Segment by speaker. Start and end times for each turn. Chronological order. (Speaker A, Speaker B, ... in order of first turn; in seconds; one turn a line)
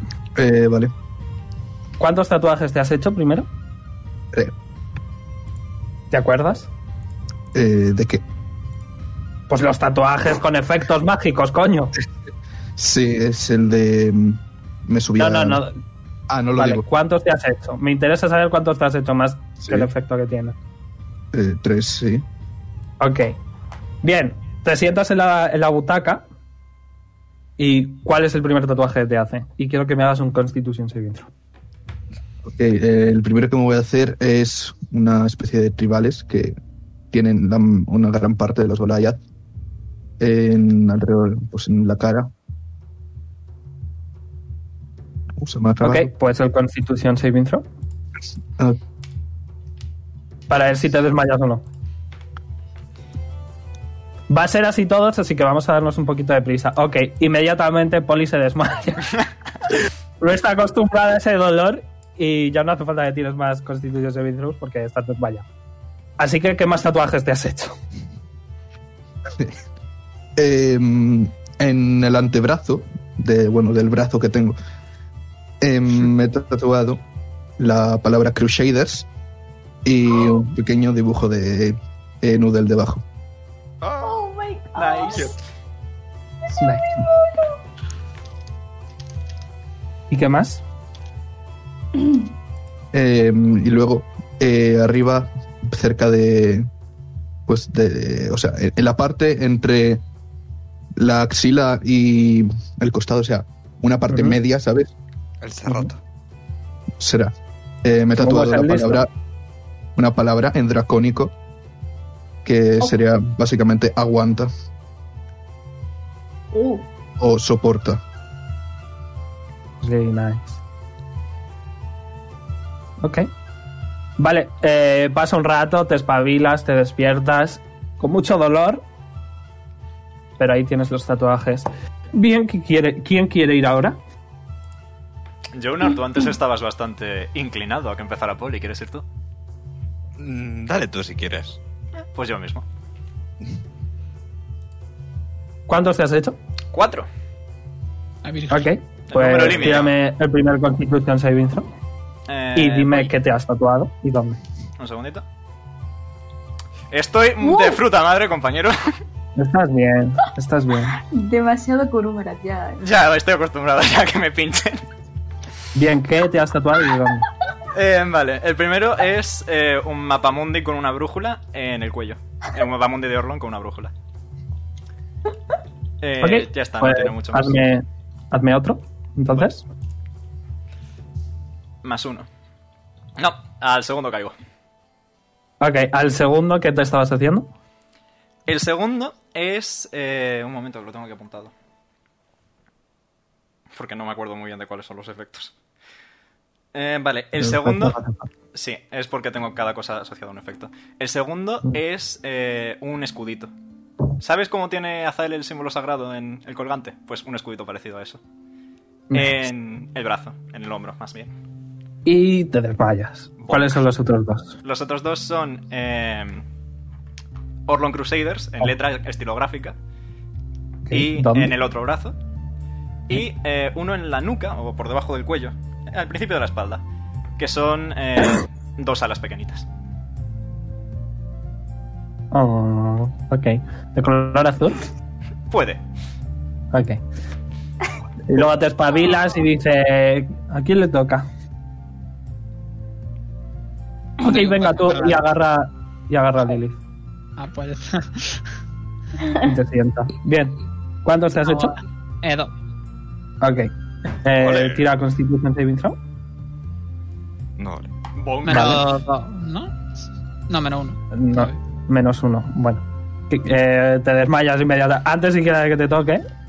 Speaker A: 0.3-0.9
Speaker B: 2.0-3.5
Speaker B: 6.1-6.7
Speaker A: 7.5-8.2
Speaker B: 9.5-11.9
Speaker A: 12.8-15.6
Speaker B: 15.2-15.8
Speaker A: 16.3-16.8
Speaker B: 16.6-20.5
Speaker A: 19.6-19.9
Speaker A: 21.3-22.2
Speaker B: 23.0-23.3
Speaker B: 24.0-26.2
Speaker B: 27.6-31.3
Speaker A: 32.5-36.5
Speaker A: 37.1-39.2
Speaker A: 40.2-42.3
Speaker A: 45.4-46.1
Speaker B: 45.8-47.6
Speaker B: 50.5-51.6
Speaker B: 54.3-59.2
Speaker B: 60.2-65.4
Speaker B: 66.2-67.8
Speaker A: 70.3-74.5
Speaker A: 75.6-77.0
Speaker A: 77.6-79.1
Speaker A: 79.8-83.0
Speaker C: 83.8-84.3
Speaker D: 84.0-85.3
Speaker E: 84.8-85.3
Speaker C: 85.0-85.3
Speaker D: 86.5-87.4
Speaker B: 86.6-86.9
Speaker B: 90.1-90.6
Speaker A: 92.9-96.7
Speaker A: 97.5-100.0
Speaker A: 100.9-104.9
Speaker B: 104.1-104.4
Speaker C: 105.4-106.0
Speaker A: 107.0-107.3
Speaker A: 107.8-109.1
Speaker B: 108.2-109.0
Speaker A: 110.0-111.3
Speaker A: 112.4-114.5
Speaker D: 116.5-116.8
Speaker A: 117.2-118.0
Speaker B: 119.8-120.6
Speaker B: 123.0-123.3
Speaker B: 124.2-128.8
Speaker B: 130.4-134.0
Speaker E: 135.5-139.0
Speaker C: 140.2-141.6
Speaker E: 142.1-142.6
Speaker B: 145.7-146.4
Speaker E: 146.7-147.1
Speaker F: 148.2-148.7
Speaker B: 148.5-151.7
Speaker E: 149.1-149.9
Speaker E: 152.3-153.1
Speaker B: 152.6-154.4
Speaker E: 154.8-155.2
Speaker E: 156.9-158.8
Speaker D: 157.4-157.8
Speaker B: 159.3-161.0
Speaker D: 161.0-162.8
Speaker E: 162.8-164.8
Speaker B: 165.7-167.3
Speaker E: 167.7-173.9
Speaker E: 176.0-177.6
Speaker B: 176.2-179.6
Speaker E: 181.8-182.3
Speaker E: 183.2-184.3
Speaker B: 185.6-187.5
Speaker E: 188.5-191.5
Speaker E: 193.7-195.5
Speaker E: 196.7-197.9
Speaker A: 197.4-198.2
Speaker E: 198.5-203.5
Speaker E: 204.2-208.2
Speaker B: 209.1-209.4
Speaker E: 209.1-211.3
Speaker B: 212.1-214.6
Speaker E: 213.4-213.8
Speaker E: 214.6-216.4
Speaker E: 217.7-219.7
Speaker B: 220.9-221.5
Speaker E: 220.9-222.1
Speaker E: 223.1-226.8
Speaker E: 227.4-229.6
Speaker B: 232.3-234.8
Speaker E: 235.5-235.8
Speaker B: 236.7-237.0
Speaker B: 238.2-241.2
Speaker B: 244.2-246.8
Speaker F: 244.2-245.2
Speaker F: 247.4-248.5
Speaker B: 249.4-251.7
Speaker F: 251.4-252.5
Speaker B: 253.4-256.0
Speaker C: 254.4-254.8
Speaker C: 257.6-257.9
Speaker E: 258.1-258.8
Speaker F: 258.4-259.7
Speaker B: 258.5-258.8
Speaker F: 260.5-261.6
Speaker B: 261.1-266.2